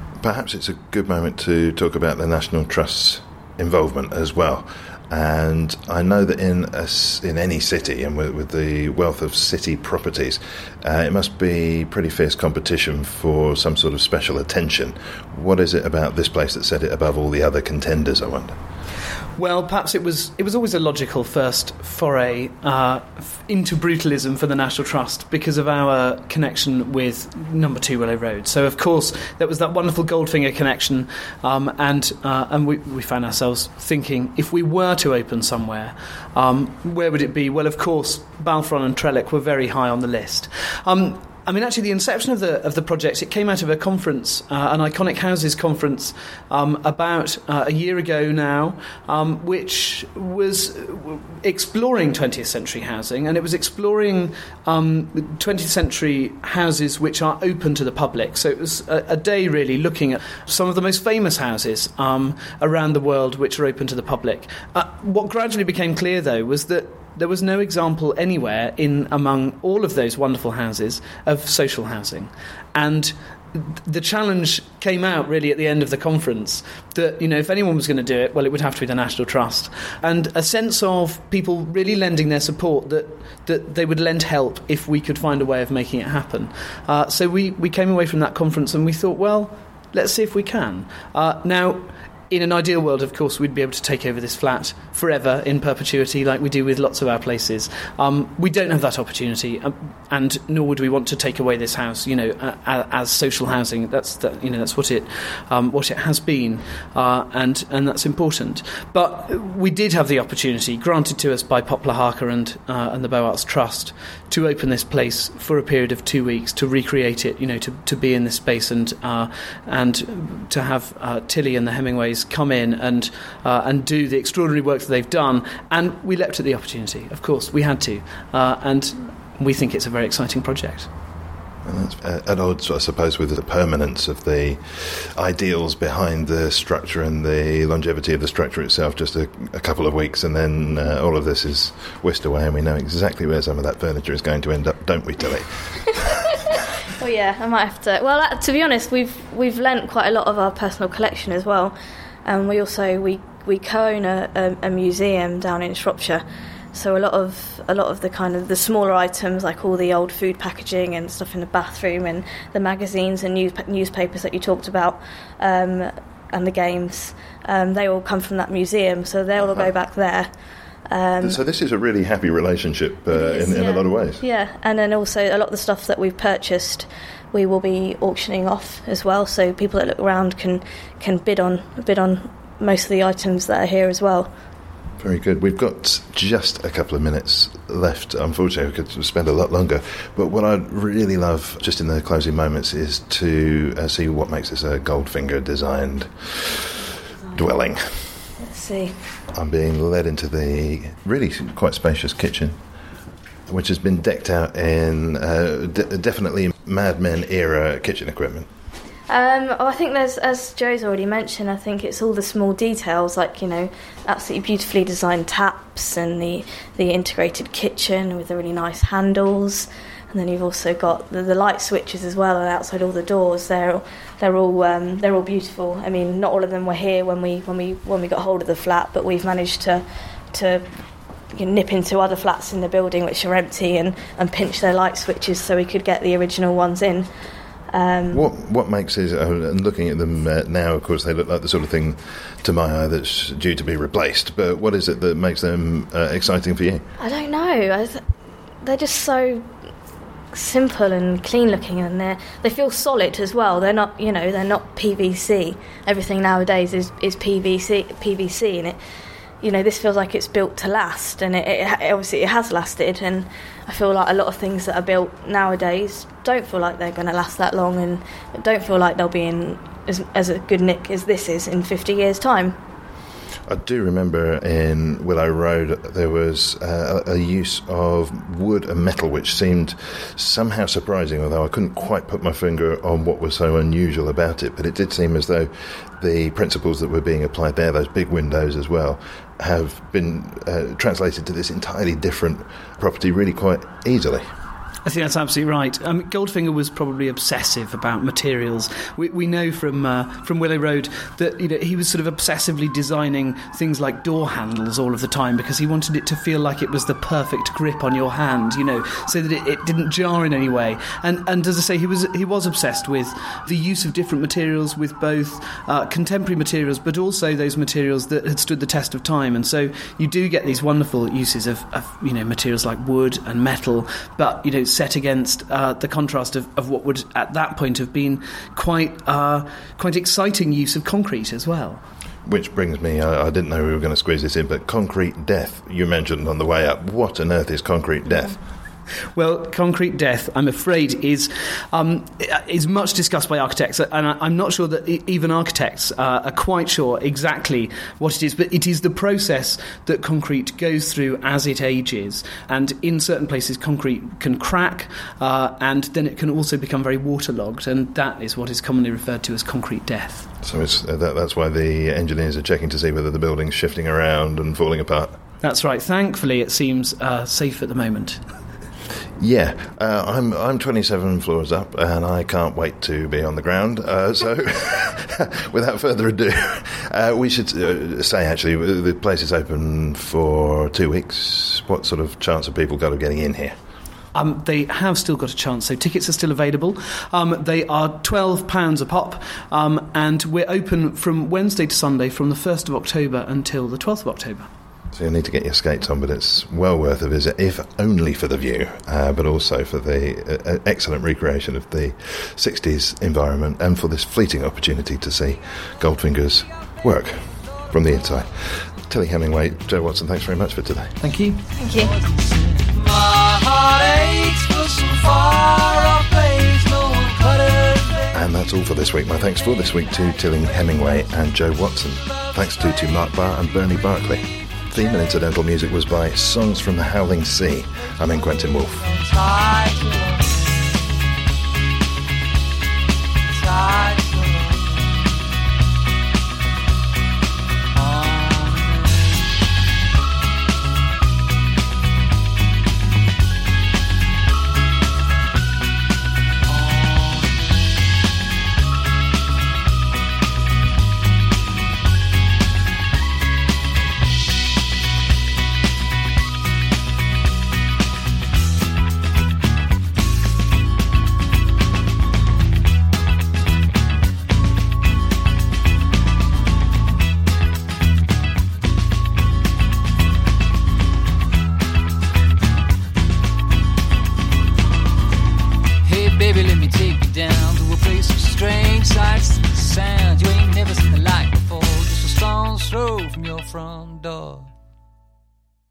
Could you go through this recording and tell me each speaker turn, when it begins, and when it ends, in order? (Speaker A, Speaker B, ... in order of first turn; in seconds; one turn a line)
Speaker A: 0.2-18.6
Speaker B: 19.4-130.9
Speaker A: 131.6-146.2
Speaker C: 147.0-170.3
Speaker A: 169.4-169.7
Speaker C: 170.9-171.4
Speaker A: 171.2-174.2
Speaker C: 173.1-184.3
Speaker A: 185.0-198.1
Speaker C: 198.4-199.0
Speaker A: 199.3-202.6
Speaker A: 203.5-208.5
Speaker C: 209.1-230.7
Speaker C: 231.3-237.1
Speaker C: 237.7-238.3
Speaker A: 238.1-246.8
Speaker C: 247.0-248.0
Speaker C: 248.6-249.5
Speaker C: 250.3-258.8
Speaker C: 259.4-272.6
Speaker A: 273.5-294.3
Speaker B: 294.9-331.8
Speaker A: 332.3-338.4
Speaker B: 339.1-360.3
Speaker A: 360.4-365.2
Speaker B: 365.4-368.2
Speaker A: 369.2-383.6
Speaker B: 384.1-394.5
Speaker A: 394.9-411.0
Speaker B: 411.0-411.4
Speaker C: 411.6-411.9
Speaker D: 411.6-418.2
Speaker A: 418.1-428.9
Speaker D: 419.3-421.2
Speaker D: 422.0-423.0
Speaker D: 428.2-431.1
Speaker D: 433.3-435.1
Speaker D: 437.7-439.4
Speaker D: 446.5-447.6
Speaker D: 475.8-484.5